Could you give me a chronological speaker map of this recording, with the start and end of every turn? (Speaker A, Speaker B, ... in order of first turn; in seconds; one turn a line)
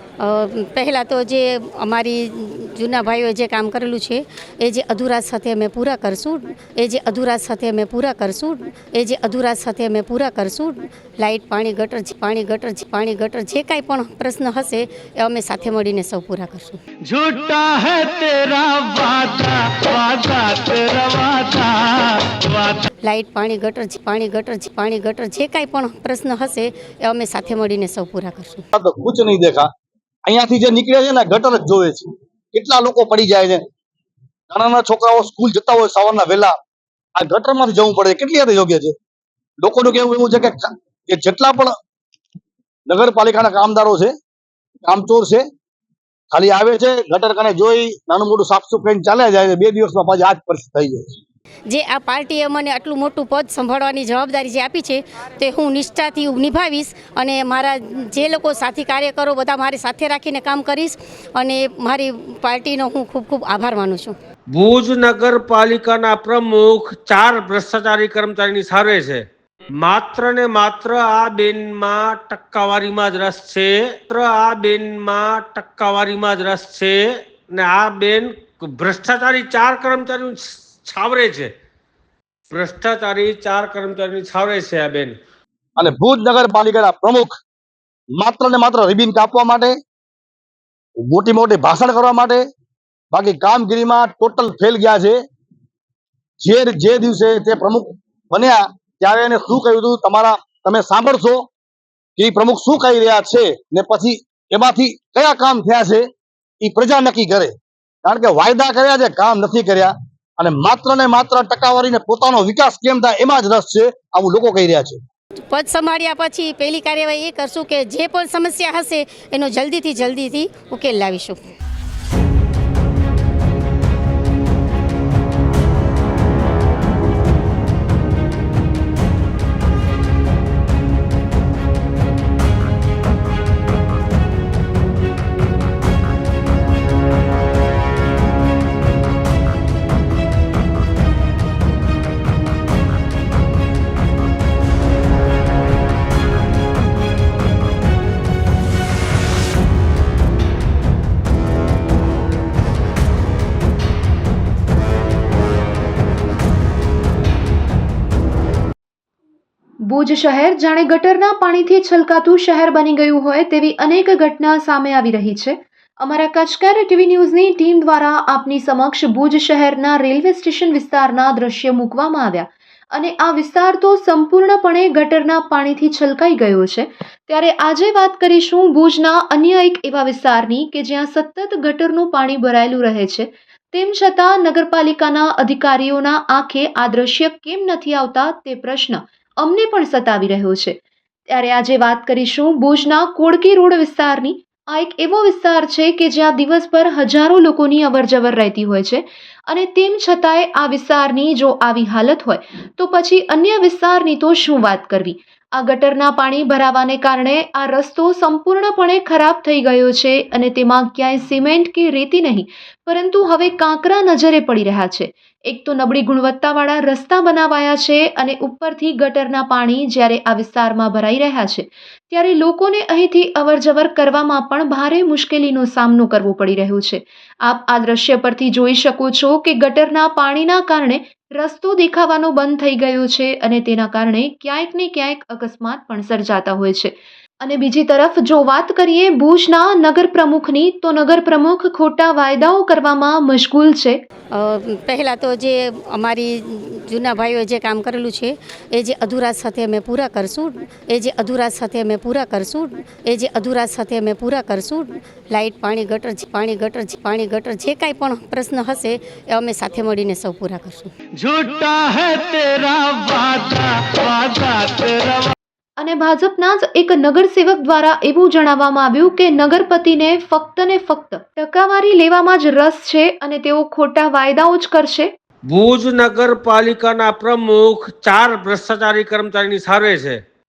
Speaker A: 0.2-16.8
Speaker B: 17.1-22.9
Speaker A: 23.0-28.7
Speaker C: 28.7-29.7
Speaker C: 30.3-33.6
Speaker C: 34.5-36.5
Speaker C: 37.2-39.0
Speaker C: 39.6-41.8
Speaker C: 42.9-44.1
Speaker C: 44.8-45.5
Speaker C: 46.3-51.2
Speaker A: 51.7-64.2
Speaker D: 64.5-69.2
Speaker D: 69.8-81.5
Speaker D: 82.5-85.2
Speaker C: 85.8-87.4
Speaker C: 88.2-89.8
Speaker C: 91.0-92.4
Speaker C: 93.1-95.2
Speaker C: 96.4-101.5
Speaker C: 102.2-106.1
Speaker C: 106.6-115.0
Speaker A: 115.5-121.4
Speaker E: 159.8-190.8
Speaker E: 191.3-244.0
Speaker A: 244.3-260.9
Speaker B: 261.2-265.3
Speaker E: 265.8-275.1
Speaker D: 275.5-280.2